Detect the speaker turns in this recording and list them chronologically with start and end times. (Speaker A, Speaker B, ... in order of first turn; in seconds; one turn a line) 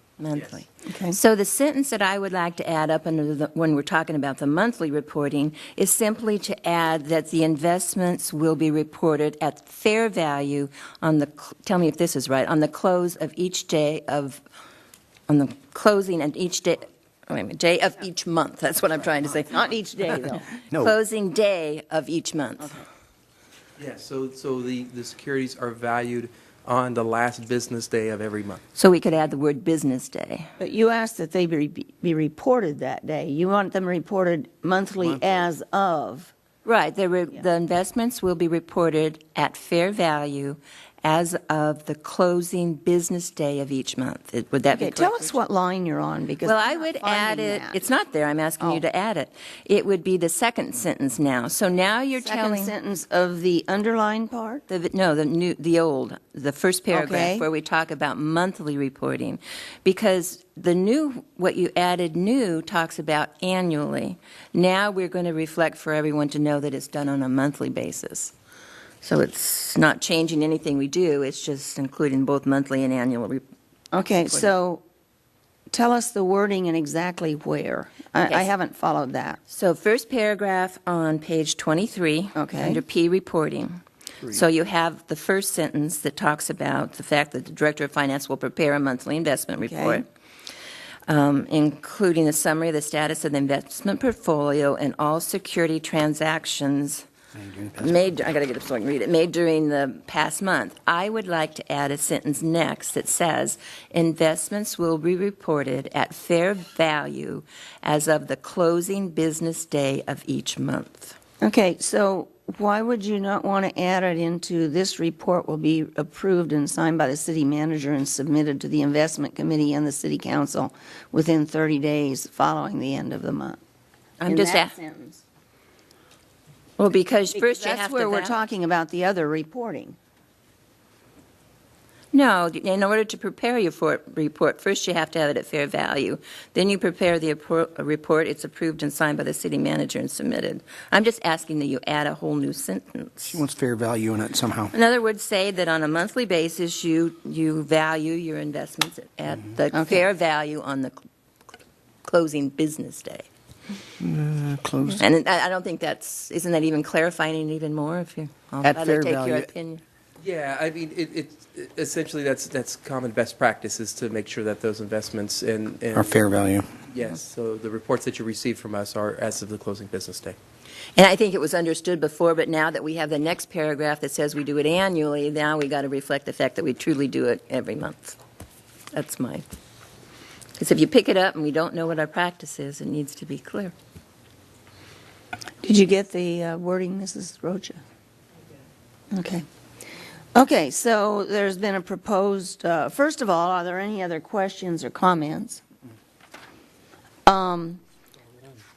Speaker A: 0.2-14.4
Speaker B: 0.8-1.1
Speaker A: 15.3-22.8
Speaker B: 19.5-20.4
Speaker C: 23.8-28.6
Speaker A: 28.8-30.5
Speaker B: 30.6-36.3
Speaker A: 36.6-45.4
Speaker B: 44.7-47.8
Speaker A: 46.4-52.7
Speaker B: 52.2-54.6
Speaker A: 54.7-68.3
Speaker B: 56.9-57.5
Speaker A: 69.0-73.4
Speaker B: 73.9-74.8
Speaker B: 75.7-79.4
Speaker A: 79.5-90.0
Speaker B: 82.3-82.8
Speaker B: 89.6-90.0
Speaker A: 91.1-97.0
Speaker D: 97.3-98.0
Speaker A: 97.8-111.2
Speaker B: 111.4-123.6
Speaker A: 124.2-124.7
Speaker B: 124.2-125.2
Speaker A: 126.8-128.3
Speaker B: 127.3-129.9
Speaker A: 132.1-143.4
Speaker D: 143.2-144.7
Speaker A: 144.7-150.9
Speaker B: 149.7-150.0
Speaker A: 152.0-153.3
Speaker D: 154.0-155.0
Speaker A: 154.9-159.8
Speaker D: 158.6-159.5
Speaker C: 160.2-166.2
Speaker D: 165.9-166.7
Speaker C: 166.9-170.4
Speaker A: 170.9-178.2
Speaker A: 178.9-179.4
Speaker A: 180.6-183.7
Speaker B: 185.6-187.8
Speaker B: 189.1-189.4
Speaker B: 190.3-195.6
Speaker B: 197.2-197.8